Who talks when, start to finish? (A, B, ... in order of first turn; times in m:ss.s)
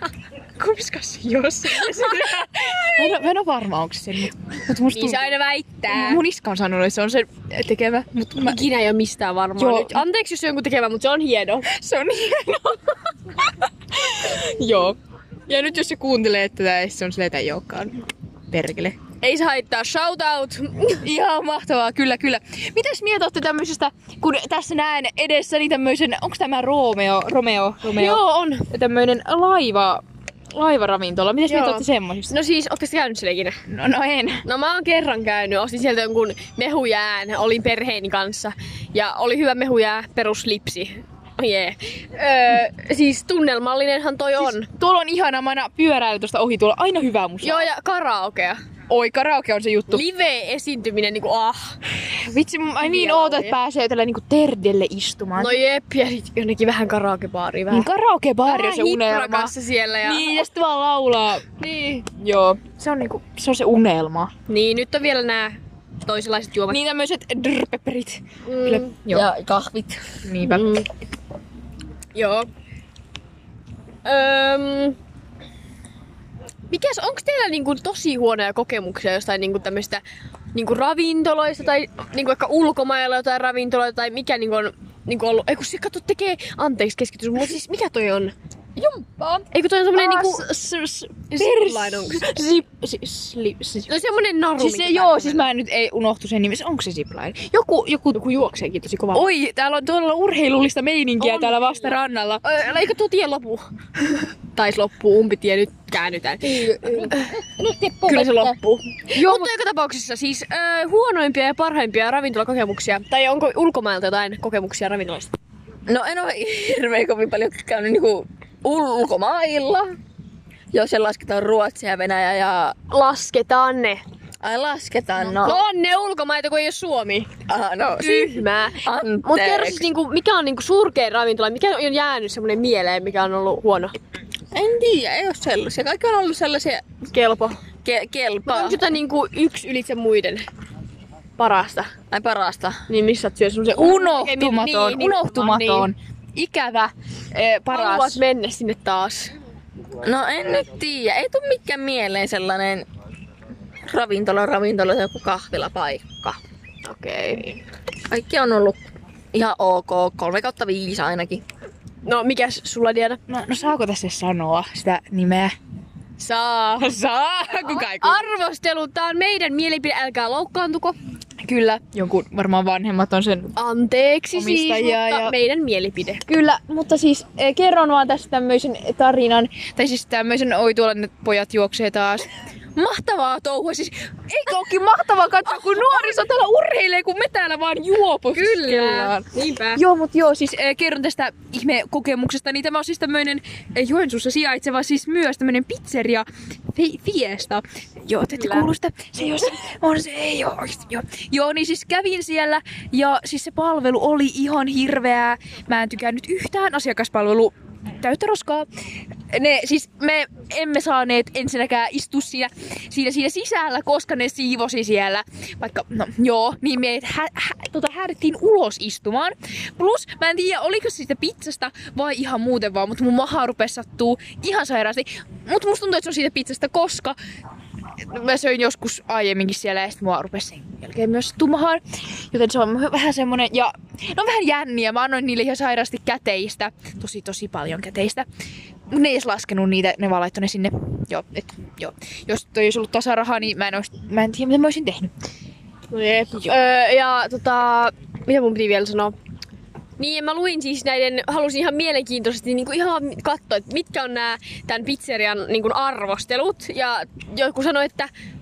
0:00.6-0:08.6 A
0:01.7-0:03.2 B
0:04.9-0:06.2 B
0:08.4-0:11.7 B
0:09.6-0:10.0 A
0:11.7-0:12.8 A
0:14.0-0:15.0 A
0:15.5-0:19.0 A
0:19.2-0:21.0 B
0:21.0-0:30.0 A
0:27.8-0:28.7 B
0:30.5-0:32.3 A
0:31.5-0:33.6 B
0:33.7-0:34.4 A
0:34.4-0:44.7 B
0:44.4-0:47.7 A
0:47.4-0:48.6 B
0:48.9-0:50.0 A
0:49.9-0:51.8 B
0:52.1-0:55.6 A
0:52.8-0:53.6 B
0:55.4-0:57.9 B
0:57.7-0:59.5 A
0:58.5-1:00.4 B
1:00.0-1:01.5 A
1:01.6-1:02.0 B
1:02.1-1:04.3 A
1:04.5-1:06.8 B
1:06.7-1:09.3 A
1:08.5-1:08.9 B
1:09.1-1:10.0 C
1:10.2-1:10.7 A
1:10.4-1:10.9 B
1:12.1-1:12.5 B
1:14.0-1:15.0 B
1:16.7-1:20.0 B
1:20.5-1:28.3 B
1:29.0-1:29.4 C
1:29.5-1:30.5 B
1:29.9-1:33.9 A
1:31.3-1:32.4 B
1:33.9-1:35.5 B
1:34.6-1:38.2 A
1:38.1-1:39.3 B
1:39.1-1:42.4 A
1:41.2-1:41.9 B
1:42.4-1:43.6 B
1:44.6-1:47.3 B
1:46.5-1:47.1 A
1:46.8-1:48.5 C
1:48.0-1:48.5 A
1:48.1-1:55.3 B
1:49.1-1:49.5 A
1:55.9-2:00.0 C
2:00.7-2:02.8 C
2:02.9-2:04.0 B
2:04.4-2:05.6 C
2:05.3-2:07.3 B
2:07.5-2:09.8 C
2:08.0-2:13.9 B
2:14.5-2:16.9 C
2:17.1-2:17.6 B
2:17.8-2:18.8 C
2:18.5-2:20.5 B
2:21.4-2:21.9 B
2:22.1-2:22.8 C
2:22.9-2:25.9 B
2:23.8-2:28.2 A
2:27.7-2:29.3 B
2:30.0-2:32.9 C
2:33.9-2:36.4 C
2:36.8-2:37.6 B
2:38.1-2:38.8 C
2:39.3-2:41.4 C
2:42.0-2:43.2 B
2:43.3-2:45.6 A
2:46.2-2:46.9 B
2:46.8-2:48.2 A
2:47.6-2:51.0 B
2:51.4-2:53.6 A
2:53.6-2:56.2 B
2:54.4-2:55.3 A
2:56.3-3:28.7 A
3:05.8-3:06.2 B
3:08.4-3:09.8 B
3:18.3-3:18.7 B
3:29.3-3:47.2 A
3:48.1-3:58.2 A
3:58.9-4:05.1 A
4:05.9-4:09.1 B
4:10.0-4:18.1 B